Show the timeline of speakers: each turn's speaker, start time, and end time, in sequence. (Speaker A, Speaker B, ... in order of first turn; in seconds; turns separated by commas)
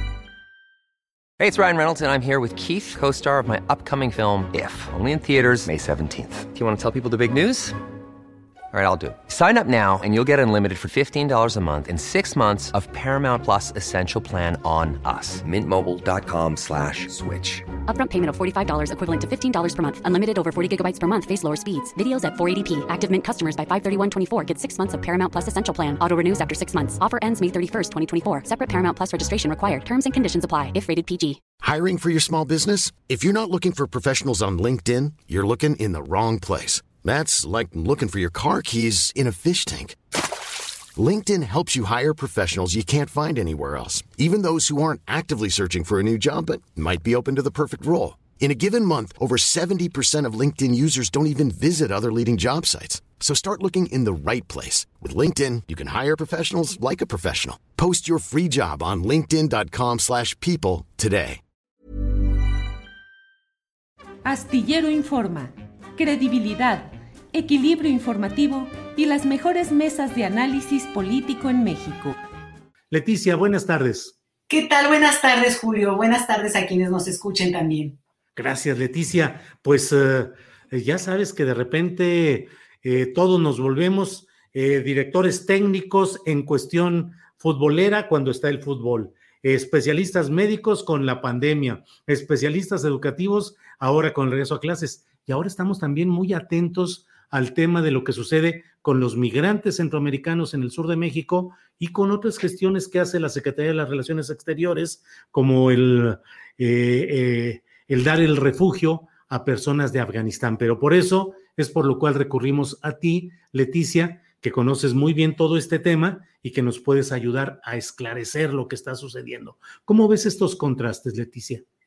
Speaker A: 1.4-7.8, Speaker A: 8.7-17.6, Speaker B: 17.8-31.4, Speaker C: 31.6-40.0, Speaker C: 41.0-61.4, Speaker D: 64.2-72.2, Speaker E: 72.9-74.2, Speaker F: 74.5-78.0, Speaker E: 78.4-121.6